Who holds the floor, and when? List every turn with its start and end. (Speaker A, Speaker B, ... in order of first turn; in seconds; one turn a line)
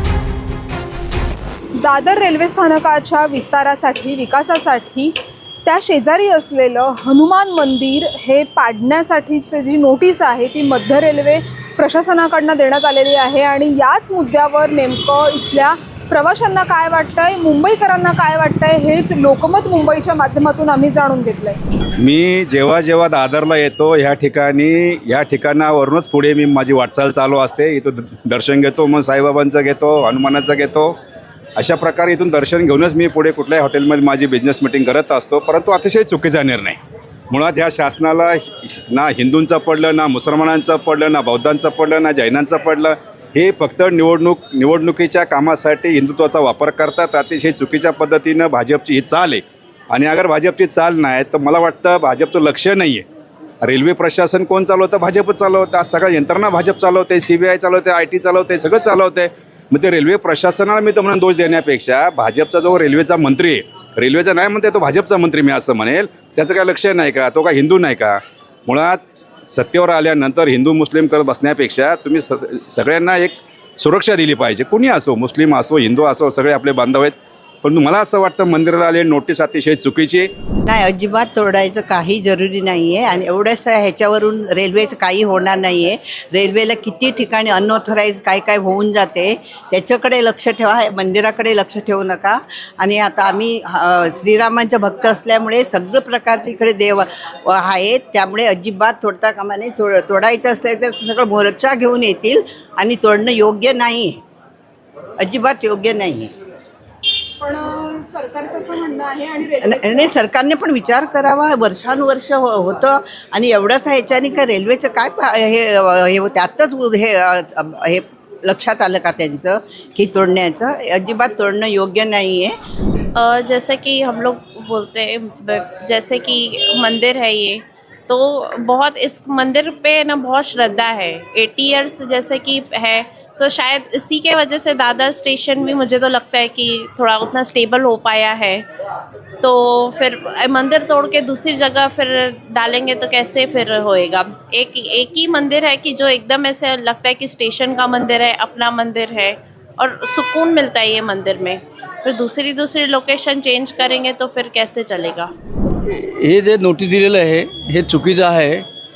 Speaker A: 1.8-5.1
Speaker A: 5.7-21.6
Speaker B: 22.0-31.0
Speaker B: 31.6-36.8
Speaker B: 37.3-53.0
Speaker B: 53.6-80.3
Speaker C: 80.7-104.2
Speaker C: 105.2-106.3
Speaker A: 107.4-110.1
Speaker C: 109.6-122.6
Speaker D: 123.2-138.7
Speaker D: 139.4-155.3
Speaker E: 155.9-158.7